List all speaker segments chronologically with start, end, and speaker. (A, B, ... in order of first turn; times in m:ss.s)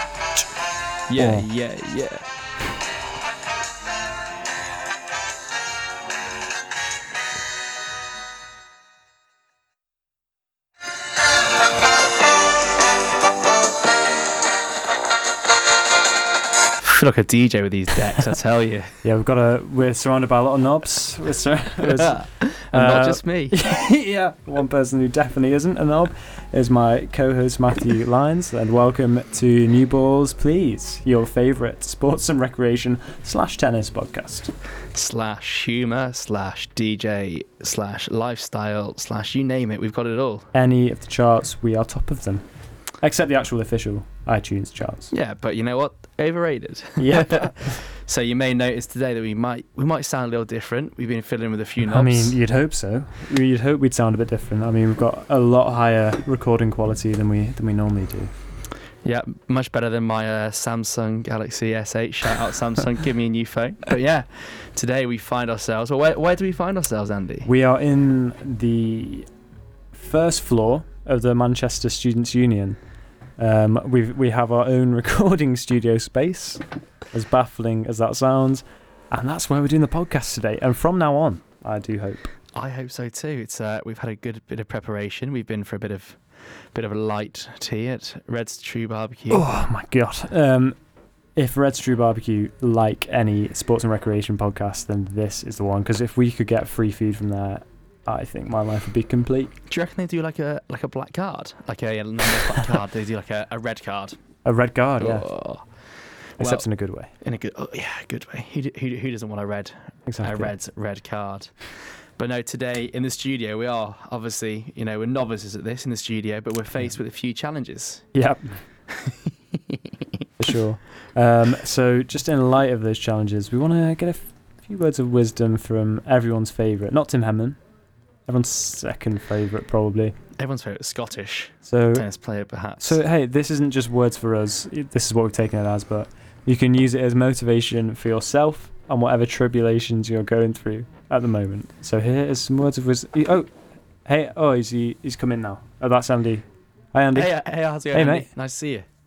0:01.1-0:02.2 A
0:01.2-0:01.5 B
0:16.8-0:19.0 A
0:19.0-0:34.5 B
0:21.8-0:23.6 A
0:34.9-0:40.5 A
0:40.5-0:42.4 B
0:43.0-0:45.1 B
0:45.1-0:52.4 A
0:47.0-0:47.8 B
0:51.8-0:58.3 B
0:59.0-1:07.5 A
1:07.4-1:09.3 B
1:09.9-1:12.8 B
1:13.4-1:22.3 B
1:22.5-1:26.2 A
1:26.7-1:29.5 A
1:29.3-1:30.8 B
1:31.4-1:39.5 B
1:39.7-1:44.2 A
1:44.4-1:45.2 B
1:45.0-1:45.6 A
1:46.4-1:46.6 A
1:46.4-1:47.1 B
1:47.2-1:58.0 A
1:50.1-1:50.5 B
1:58.1-1:58.5 B
1:58.9-2:00.0 A
2:00.4-2:07.6 B
2:08.3-2:10.1 B
2:10.4-2:13.0 A
2:11.6-2:12.0 B
2:12.8-2:23.5 B
2:24.0-2:27.3 B
2:27.1-2:28.8 A
2:27.9-2:28.3 B